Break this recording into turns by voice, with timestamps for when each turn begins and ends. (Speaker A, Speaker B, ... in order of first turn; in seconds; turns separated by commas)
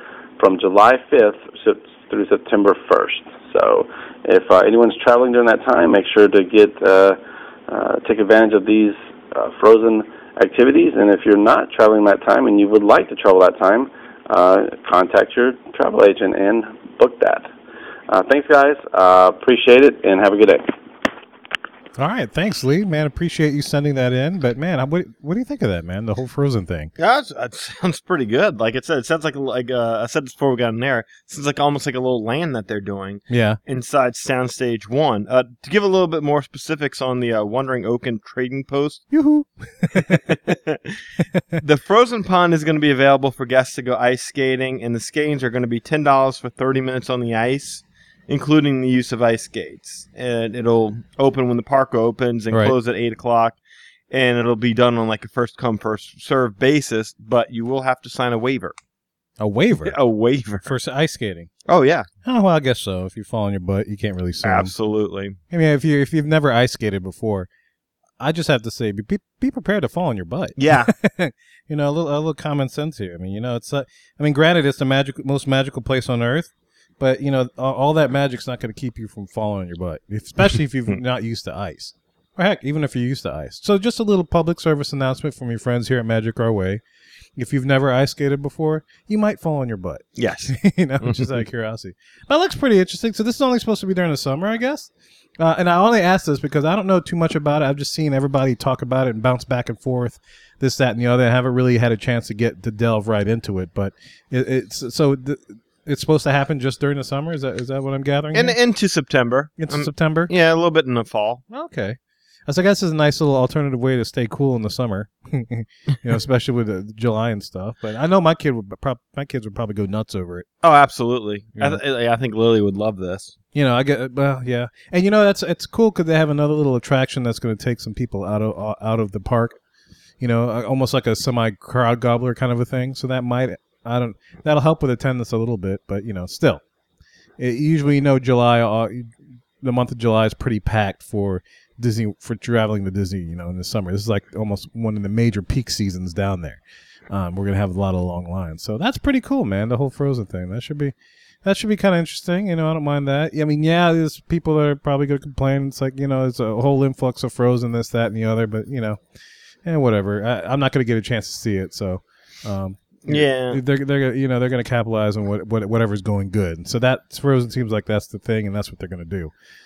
Speaker A: 0.4-17.5, Speaker A: 18.1-20.7, Speaker B: 22.0-26.9, Speaker C: 27.0-39.1, Speaker B: 33.3-33.6, Speaker B: 39.1-40.4, Speaker C: 39.9-41.0, Speaker C: 41.6-53.6, Speaker C: 54.1-58.7, Speaker B: 59.4-60.0, Speaker C: 59.8-60.7, Speaker B: 60.6-61.5, Speaker C: 61.6-62.1, Speaker B: 62.2-64.7, Speaker C: 64.4-65.4, Speaker B: 65.5-67.5, Speaker B: 68.2-86.8, Speaker C: 70.6-70.9, Speaker B: 87.3-108.6, Speaker C: 90.2-91.4, Speaker C: 108.3-111.4, Speaker B: 109.6-110.3, Speaker B: 111.5-120.5, Speaker C: 120.6-123.3, Speaker B: 123.5-129.6, Speaker B: 130.2-136.6, Speaker B: 137.4-159.0, Speaker B: 159.6-169.3, Speaker C: 163.1-163.6